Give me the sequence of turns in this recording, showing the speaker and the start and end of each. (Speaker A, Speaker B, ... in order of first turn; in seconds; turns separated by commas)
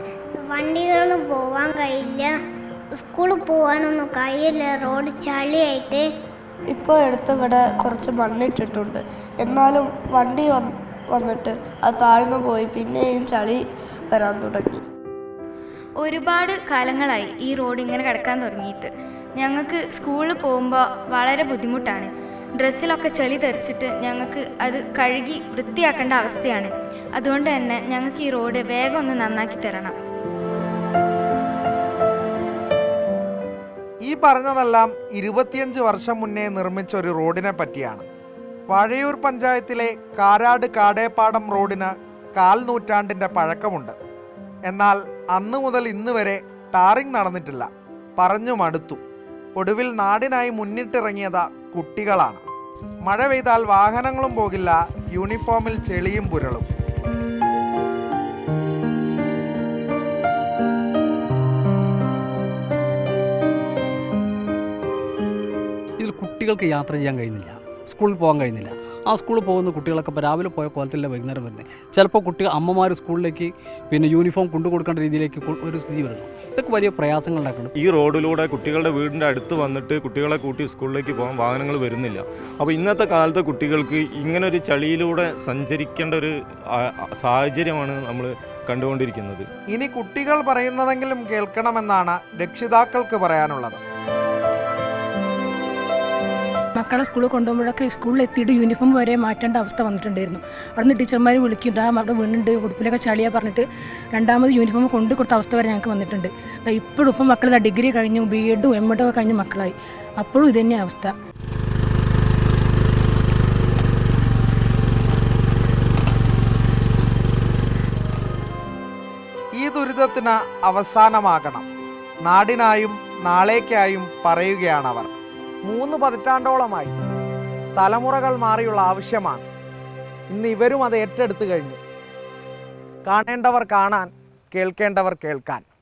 Speaker A: 0.4-2.3, Speaker A: 3.0-6.1, Speaker B: 6.7-14.8, Speaker C: 16.0-29.9, Speaker D: 34.0-38.0, Speaker D: 38.7-43.9, Speaker D: 44.6-49.0, Speaker D: 49.5-52.4, Speaker D: 53.0-56.7, Speaker E: 66.0-77.7, Speaker F: 77.8-89.5, Speaker D: 89.7-93.8, Speaker G: 96.8-111.1, Speaker D: 119.6-121.7, Speaker D: 122.2-125.1, Speaker D: 125.6-126.9, Speaker D: 127.8-129.4, Speaker D: 130.3-131.8, Speaker D: 133.1-135.6